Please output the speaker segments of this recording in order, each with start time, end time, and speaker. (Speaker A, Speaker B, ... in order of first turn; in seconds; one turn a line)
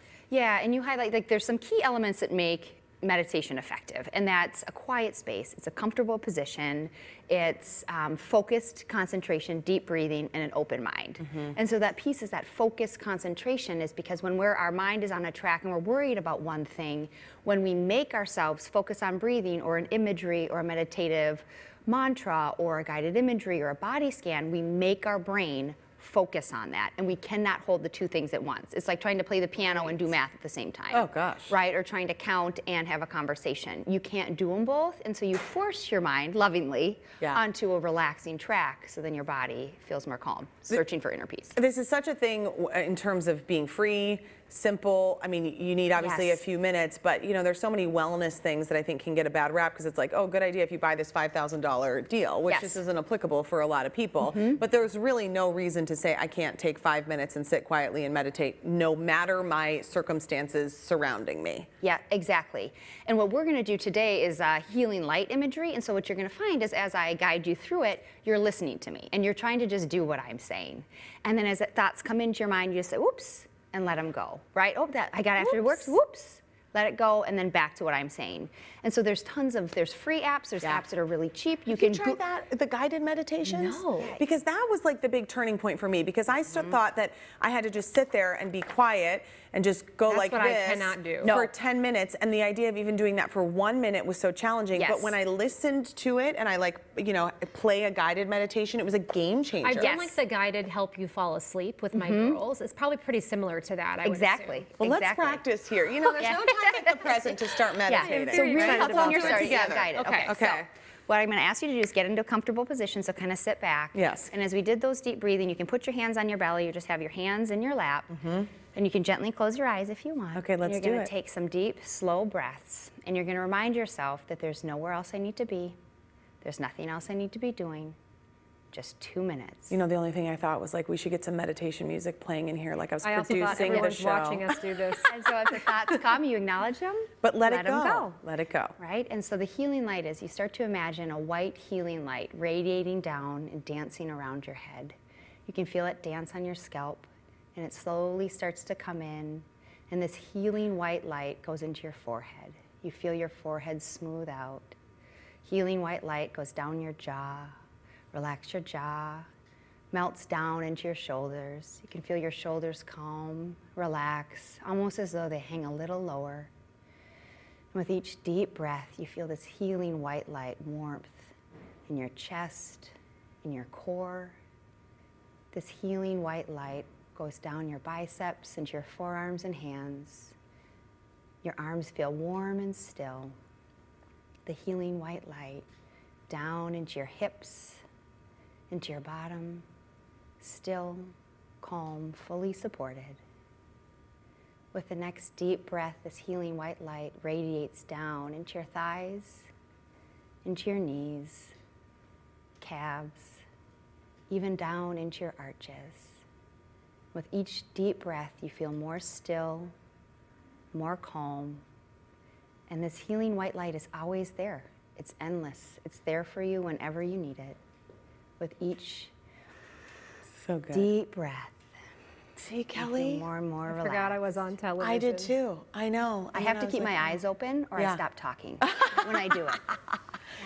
Speaker A: 0.3-41.5
Speaker B: 30.9-31.6
Speaker B: 41.5-61.7
Speaker A: 46.0-46.4
Speaker A: 52.5-52.8
Speaker A: 54.2-54.6
Speaker A: 61.8-82.2
Speaker C: 75.4-76.0
Speaker B: 81.7-100.1
Speaker C: 83.5-84.2
Speaker A: 84.0-84.2
Speaker C: 90.1-91.5
Speaker A: 94.7-95.2
Speaker C: 99.6-104.7
Speaker A: 99.8-100.0
Speaker A: 101.9-102.4
Speaker A: 104.0-105.5
Speaker B: 104.8-110.7
Speaker A: 106.2-125.8
Speaker C: 107.9-110.4
Speaker B: 113.9-114.3
Speaker B: 118.1-118.5
Speaker B: 120.3-121.1
Speaker A: 126.4-128.0
Speaker A: 128.7-129.8
Speaker B: 129.7-134.6
Speaker C: 133.0-135.1
Speaker A: 133.4-133.9
Speaker A: 135.1-138.1
Speaker B: 137.2-138.7
Speaker A: 138.8-144.9
Speaker A: 145.5-154.7
Speaker A: 155.4-157.5
Speaker A: 158.1-159.3
Speaker A: 159.9-166.5
Speaker A: 167.7-171.3
Speaker A: 171.9-174.4
Speaker A: 175.5-180.3
Speaker A: 181.4-183.3
Speaker A: 184.4-185.7
Speaker A: 186.3-187.8
Speaker A: 188.7-189.7
Speaker A: 190.4-193.2
Speaker A: 194.7-199.5
Speaker A: 200.4-201.5
Speaker A: 202.6-203.4
Speaker A: 204.3-206.2
Speaker A: 207.1-209.7
Speaker A: 210.7-211.6
Speaker A: 212.7-217.6
Speaker A: 218.4-219.1
Speaker B: 220.4-220.9
Speaker A: 220.7-221.6
Speaker B: 222.4-223.2
Speaker A: 222.8-224.3
Speaker C: 223.7-225.3
Speaker B: 224.8-227.2
Speaker A: 226.3-229.6
Speaker B: 228.6-229.9